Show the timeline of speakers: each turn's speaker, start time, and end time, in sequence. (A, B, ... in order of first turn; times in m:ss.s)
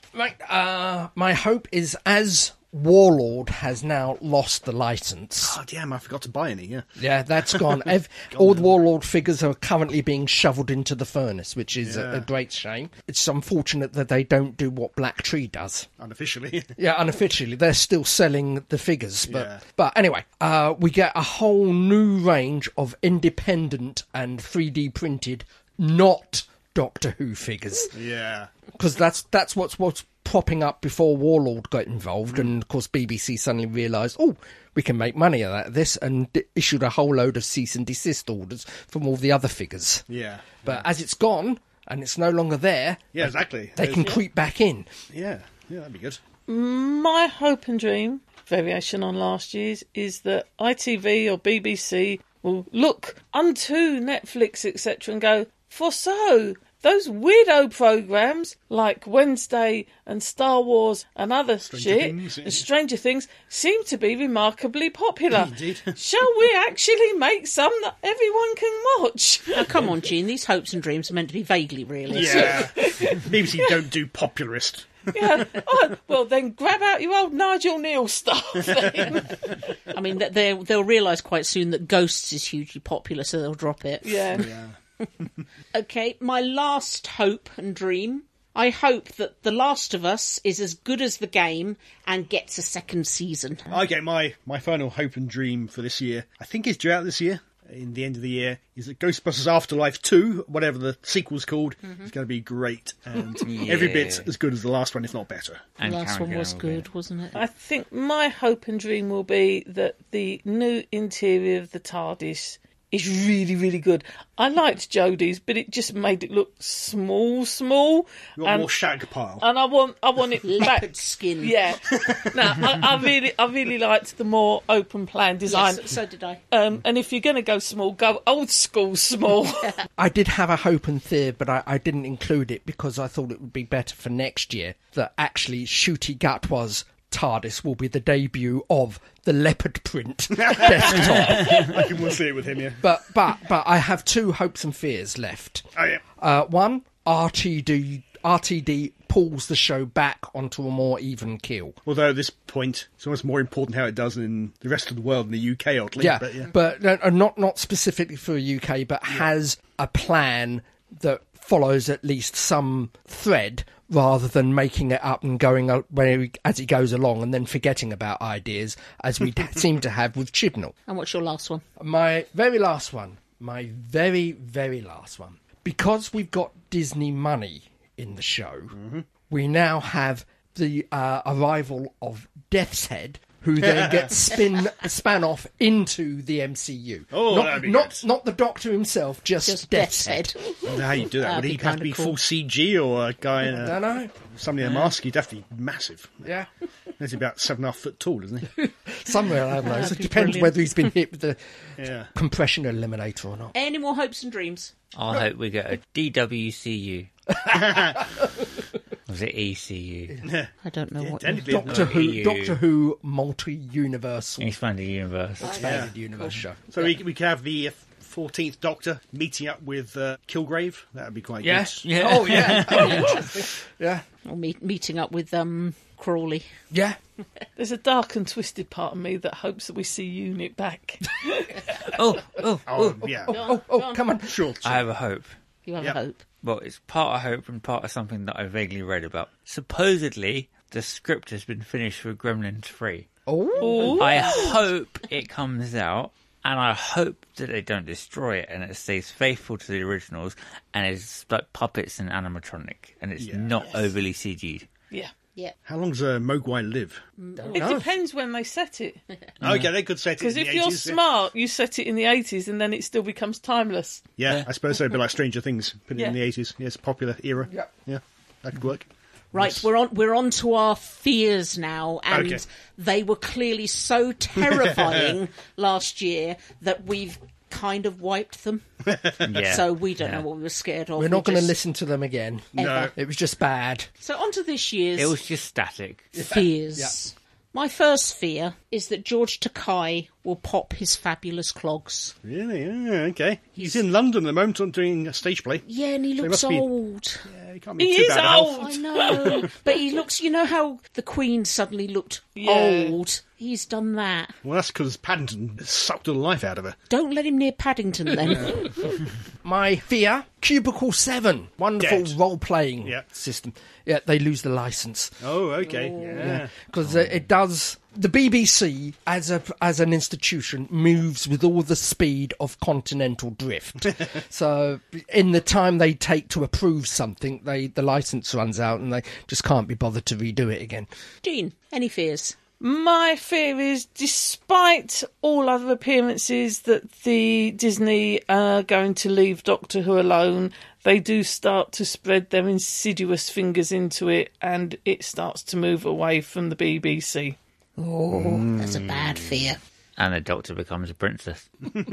0:00.1-0:05.6 A
0:05.4-0:06.9 B
0:07.0-0:15.9 A
0:07.5-0:08.7 B
0:11.8-0:12.2 B
0:16.0-0:16.7 B
0:16.8-0:27.9 A
0:19.3-0:19.6 B
0:27.9-0:28.5 B
0:28.7-0:40.0 A
0:40.1-0:40.8 B
0:40.6-0:44.9 A
0:43.1-0:44.2 B
0:45.1-0:46.2 B
0:46.5-1:09.7 C
1:01.6-1:02.6 B
1:05.3-1:05.9 B
1:09.5-1:12.7 D
1:12.1-1:15.5 B
1:12.1-1:13.8 C
1:15.1-1:19.6 C
1:19.9-1:24.4 D
1:24.0-1:24.5 C
1:24.4-1:24.8 B
1:25.7-1:33.8 D
1:33.7-1:45.6 B
1:43.4-1:44.3 E
1:45.8-1:46.8 E
1:45.8-1:47.4 D
1:47.3-1:58.7 C
1:58.4-1:59.4 B
1:59.4-2:00.9 C
2:00.4-2:01.6 D
2:01.4-2:05.9 C
2:05.4-2:06.4 D
2:06.5-2:09.8 C
2:10.0-2:21.9 A
2:20.4-2:22.8 B
2:22.8-2:25.6 A
2:25.8-2:26.0 B
2:26.2-2:31.8 A
2:31.8-2:36.5 B
2:36.0-2:50.7 A
2:50.9-2:51.6 D
2:51.8-2:58.7 A
2:58.7-2:59.0 B
2:59.3-3:10.3 A
3:07.1-3:08.0 B
3:09.4-3:10.4 D
3:10.6-3:16.2 B
3:11.2-3:12.2 D
3:13.4-3:14.1 A
3:16.2-3:16.5 A
3:17.0-3:18.5 B
3:18.6-3:21.4 A
3:19.7-3:20.9 D
3:21.8-3:22.1 B
3:22.1-3:23.5 A
3:23.5-3:24.7 D
3:24.9-3:27.1 E
3:27.4-3:28.0 A
3:27.5-3:28.0 B
3:29.1-3:30.2 E
3:30.2-3:32.1 B
3:30.6-3:31.4 D
3:31.3-3:34.5 A
3:31.6-3:32.6 E
3:34.4-3:35.8 E
3:35.4-3:36.8 A
3:35.4-3:35.8 D
3:35.6-3:35.9 B
3:36.7-3:41.8 B
3:41.4-3:44.0 A
3:41.8-3:43.2 E
3:44.2-3:46.5 D
3:46.7-3:47.0 A
3:47.6-3:51.7 C
3:51.8-3:53.2 E
3:52.6-3:53.4 B
3:53.2-3:54.4 A
3:53.3-3:54.0 D
3:54.2-3:54.9 B
3:54.6-3:55.3 E
3:55.6-3:56.2 D
3:56.4-4:03.1 E
4:03.3-4:04.0 A
4:03.6-4:04.4 C
4:03.7-4:04.3 D
4:04.0-4:14.7 E
4:13.2-4:13.8 B
4:15.6-4:17.0 B
4:17.2-4:17.7 D
4:17.4-4:17.9 A
4:17.5-4:19.0 C
4:19.4-4:19.7 E
4:19.4-4:21.0 B
4:20.2-4:24.0 C
4:24.2-4:29.6 B
4:29.3-4:38.7 D
4:32.1-4:32.4 B
4:39.2-4:40.2 E
4:39.2-4:41.6 D
4:41.0-4:43.9 A
4:42.6-4:42.9 B
4:42.6-4:42.9 D
4:44.0-4:45.2 D
4:45.0-4:46.2 E
4:46.1-4:52.2 D
4:46.2-4:47.0 A
4:52.2-4:55.6 B
4:53.6-4:53.8 D
4:55.6-4:57.3 D
4:56.2-4:56.7 B
4:57.3-4:58.7 B
4:57.8-4:59.5 C
4:58.5-5:04.4 D
5:02.4-5:03.0 C
5:04.4-5:06.8 B
5:06.9-5:08.7 D
5:09.4-5:15.3 A
5:11.8-5:12.1 B
5:15.2-5:16.5 B
5:15.6-5:16.3 D
5:16.0-5:30.9 A
5:31.2-5:32.4 D
5:32.6-5:47.4 C
5:47.8-5:49.6 D
5:48.3-5:48.6 B
5:50.0-5:51.5 E